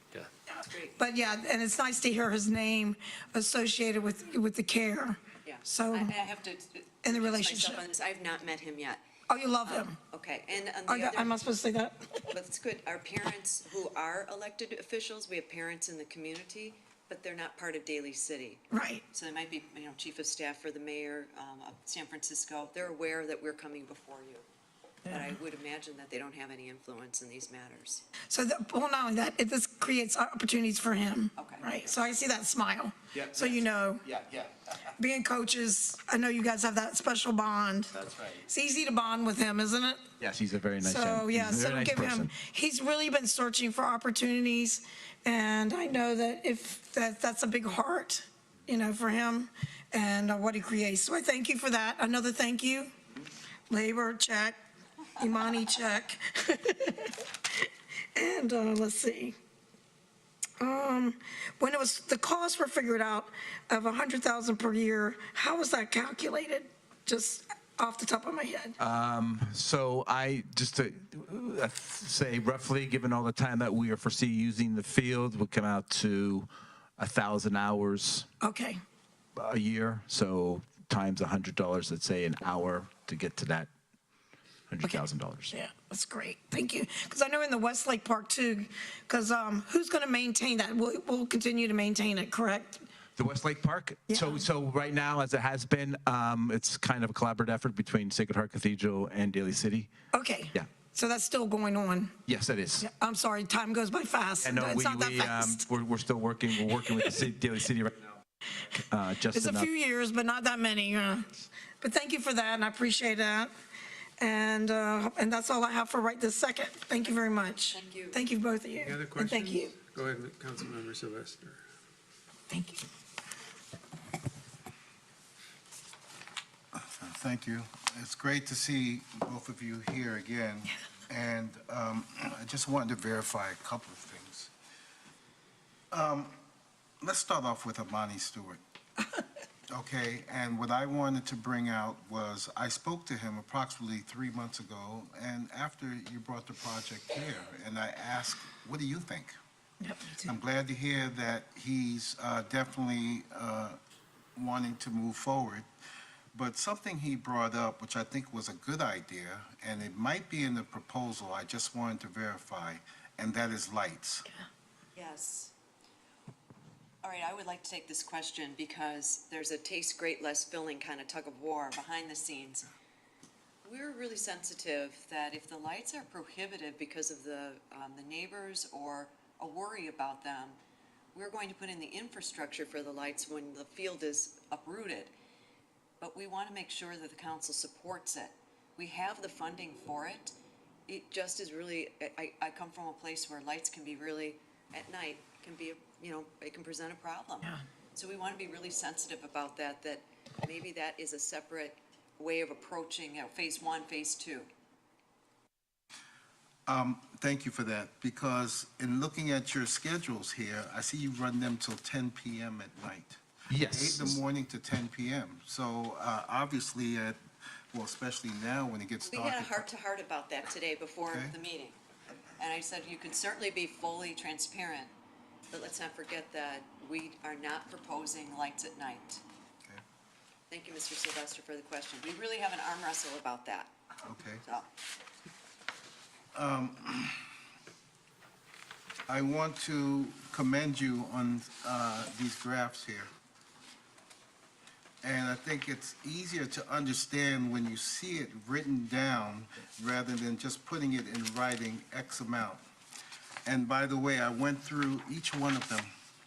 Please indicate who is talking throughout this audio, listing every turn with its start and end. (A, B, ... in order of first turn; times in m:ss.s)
0:00.6-0:01.0 A
0:00.6-0:06.1 B
0:05.4-0:09.0 A
0:07.0-0:07.8 B
0:09.3-0:10.0 B
0:09.6-0:11.4 A
0:10.9-0:12.2 B
0:12.3-0:24.5 A
0:18.7-0:19.0 B
0:25.1-0:28.0 A
0:28.3-0:34.0 B
0:31.4-0:31.8 A
0:33.1-0:34.5 C
0:35.0-0:37.9 B
0:37.9-0:38.4 C
0:38.4-0:40.0 B
0:40.2-0:42.3 C
0:40.8-0:52.9 B
0:53.7-0:54.6 B
0:55.2-0:57.2 B
0:58.1-0:59.4 B
1:00.6-1:08.8 B
1:08.8-1:18.3 C
1:18.4-1:18.8 B
1:19.4-1:23.7 C
1:24.7-1:25.6 C
1:24.8-1:32.8 B
1:33.2-1:39.9 C
1:34.1-1:34.4 B
1:40.1-1:42.2 B
1:42.3-1:42.9 C
1:42.8-1:45.6 B
1:44.4-1:48.0 C
1:46.9-1:47.2 B
1:48.9-1:49.7 C
1:49.3-1:53.5 B
1:54.2-1:59.8 B
1:57.0-1:58.2 A
1:58.8-2:01.6 D
2:02.5-2:02.8 B
2:06.7-2:14.5 E
2:15.9-2:16.4 E
2:17.0-2:18.6 E
2:19.7-2:29.4 E
2:29.8-2:30.3 B
2:30.2-2:33.8 E
2:34.4-2:35.7 E
2:36.3-2:44.3 E
2:45.0-2:45.6 A
2:47.0-2:52.7 A
2:53.6-3:00.6 A
3:01.1-3:05.1 A
3:06.0-3:10.4 A
3:10.9-3:24.5 A
3:26.7-3:37.2 E
3:33.5-3:34.2 C
3:37.7-3:39.7 E
3:39.0-3:41.8 A
3:41.1-3:41.3 E
3:42.4-3:44.9 A
3:45.5-3:49.2 A
3:50.5-3:53.8 A
3:54.0-3:54.4 E
3:56.4-3:57.2 E
3:59.1-4:03.1 E
4:05.0-4:12.6 E
4:13.5-4:15.9 E